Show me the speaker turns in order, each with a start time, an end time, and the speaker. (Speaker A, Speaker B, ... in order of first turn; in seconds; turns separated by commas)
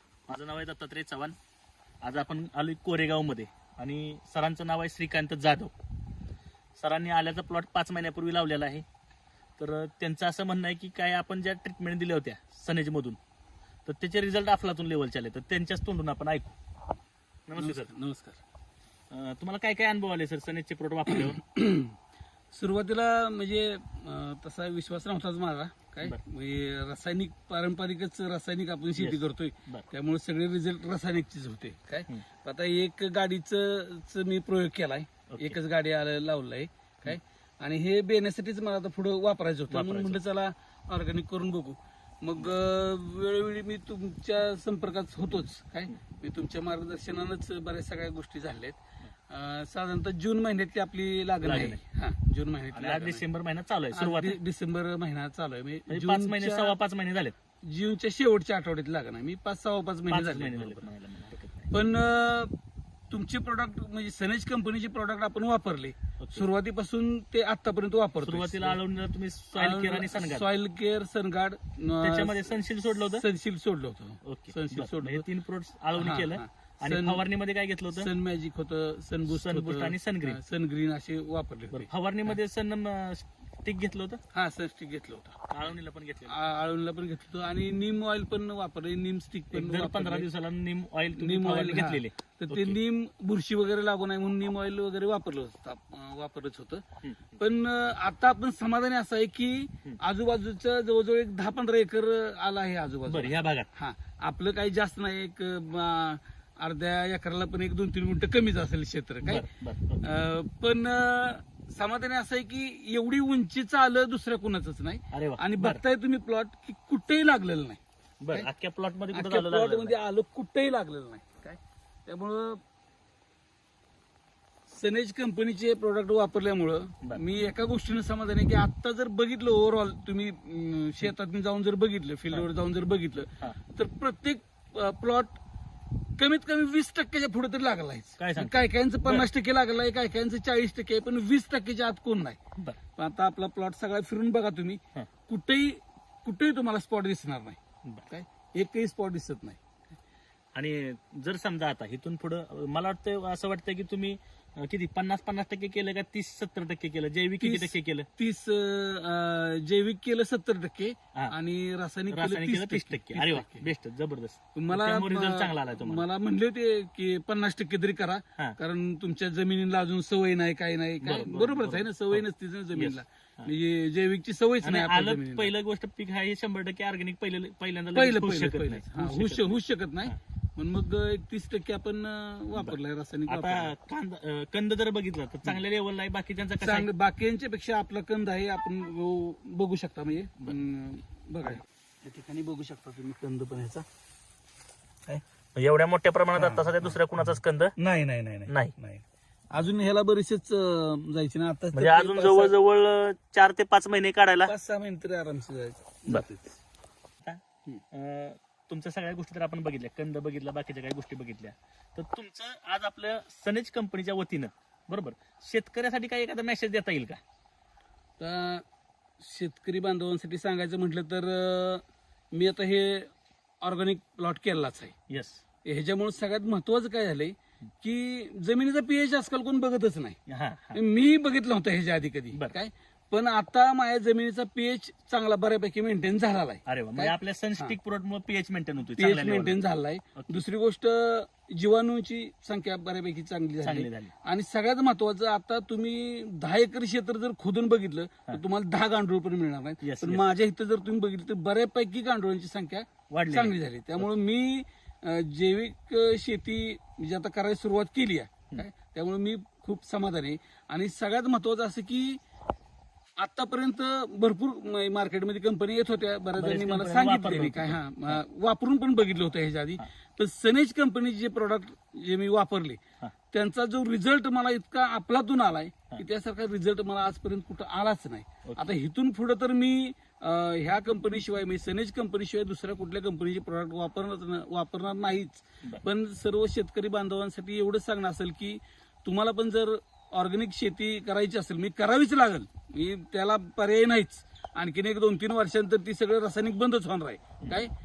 Speaker A: 0.3-1.3, Speaker A: 2.0-5.7, Speaker A: 6.8-8.8, Speaker A: 9.6-13.2, Speaker A: 13.8-16.5, Speaker A: 17.5-17.9, Speaker B: 17.6-18.4, Speaker A: 19.1-21.4, Speaker B: 21.1-21.9, Speaker B: 22.5-48.8, Speaker A: 29.0-29.9, Speaker A: 35.3-35.6, Speaker A: 39.7-40.2, Speaker B: 49.3-53.2, Speaker A: 51.4-51.8, Speaker A: 52.7-54.4, Speaker B: 53.9-56.8, Speaker A: 55.9-57.4, Speaker B: 57.6-60.9, Speaker A: 60.1-61.7, Speaker B: 61.7-62.5, Speaker B: 63.1-68.8, Speaker A: 66.2-66.5, Speaker A: 68.2-70.4, Speaker B: 69.5-72.5, Speaker A: 72.0-73.2, Speaker B: 73.1-75.2, Speaker A: 74.2-78.1, Speaker B: 76.0-77.2, Speaker B: 77.9-82.3, Speaker A: 79.3-80.4, Speaker A: 81.7-84.2, Speaker B: 84.3-85.5, Speaker A: 85.5-86.3, Speaker B: 86.3-90.3, Speaker A: 89.5-92.8, Speaker B: 91.2-96.8, Speaker B: 97.3-109.5, Speaker A: 103.1-103.7, Speaker A: 109.2-110.1, Speaker B: 110.0-117.8, Speaker A: 115.1-115.8, Speaker A: 118.2-119.9, Speaker B: 119.1-122.6, Speaker B: 124.7-135.4, Speaker B: 136.2-142.4, Speaker A: 138.2-139.3, Speaker B: 142.9-149.6, Speaker A: 150.5-158.1, Speaker B: 157.4-163.7, Speaker A: 162.1-166.0, Speaker B: 164.5-175.5, Speaker A: 171.0-173.5, Speaker A: 174.6-180.1, Speaker B: 177.9-183.7, Speaker A: 183.3-186.9, Speaker B: 186.6-193.8, Speaker A: 195.5-197.7, Speaker B: 196.3-196.9, Speaker B: 197.8-202.5, Speaker A: 198.5-198.7, Speaker A: 201.7-204.5, Speaker B: 204.4-206.5, Speaker A: 207.2-217.2, Speaker B: 218.2-218.6, Speaker B: 219.2-223.1, Speaker B: 223.6-224.9, Speaker A: 225.1-225.4, Speaker B: 225.6-230.2, Speaker A: 230.3-230.8, Speaker B: 230.7-237.8, Speaker A: 236.7-239.6, Speaker B: 239.0-262.2, Speaker A: 240.2-240.4, Speaker A: 243.6-244.1, Speaker A: 249.8-250.2, Speaker A: 253.1-254.1, Speaker B: 263.2-272.8, Speaker A: 266.4-268.2, Speaker B: 273.3-297.7, Speaker A: 278.4-278.7